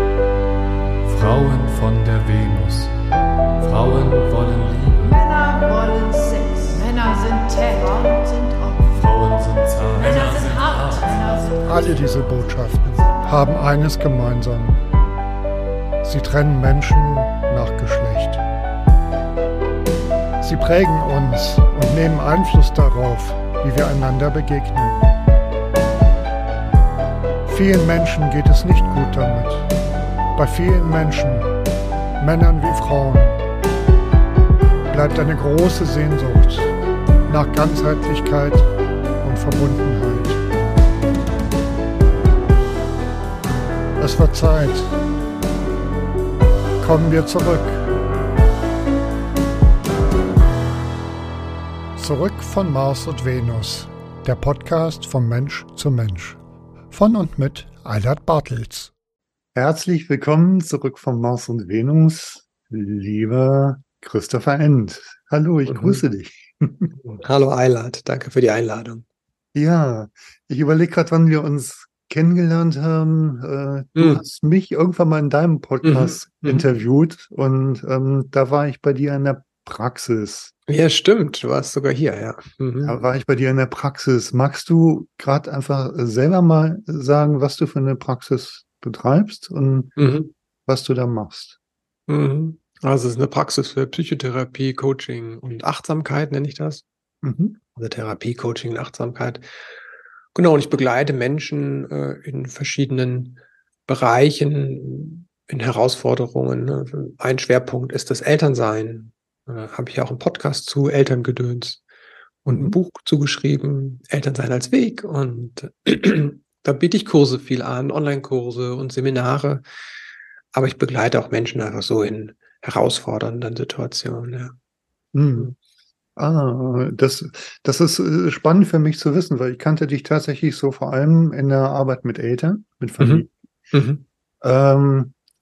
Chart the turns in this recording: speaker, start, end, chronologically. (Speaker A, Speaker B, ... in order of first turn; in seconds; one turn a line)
Speaker A: 1.1-2.9
Speaker A: 3.6-5.2
Speaker B: 5.0-9.0
Speaker A: 8.9-11.2
Speaker B: 10.0-13.4
Speaker C: 11.7-14.8
Speaker C: 16.0-18.4
Speaker C: 20.4-25.1
Speaker C: 27.5-29.7
Speaker C: 30.4-31.5
Speaker C: 32.2-33.4
Speaker C: 34.9-36.7
Speaker C: 37.3-38.7
Speaker C: 39.2-40.5
Speaker C: 44.0-45.0
Speaker C: 46.8-47.9
Speaker C: 52.0-56.4
Speaker C: 56.9-58.9
Speaker C: 59.5-66.9
Speaker D: 65.7-66.0
Speaker D: 67.0-69.0
Speaker C: 69.5-80.5
Speaker D: 74.0-74.2
Speaker D: 75.8-76.7
Speaker D: 80.7-83.0
Speaker C: 82.8-90.0
Speaker D: 90.0-90.3
Speaker C: 90.7-91.6
Speaker D: 92.1-96.8
Speaker C: 97.2-97.6
Speaker D: 97.8-99.5
Speaker D: 100.3-111.8
Speaker D: 112.5-119.6
Speaker C: 112.5-112.8
Speaker D: 120.5-124.5
Speaker C: 125.1-125.5
Speaker C: 126.2-133.3
Speaker D: 133.0-134.1
Speaker C: 134.4-135.1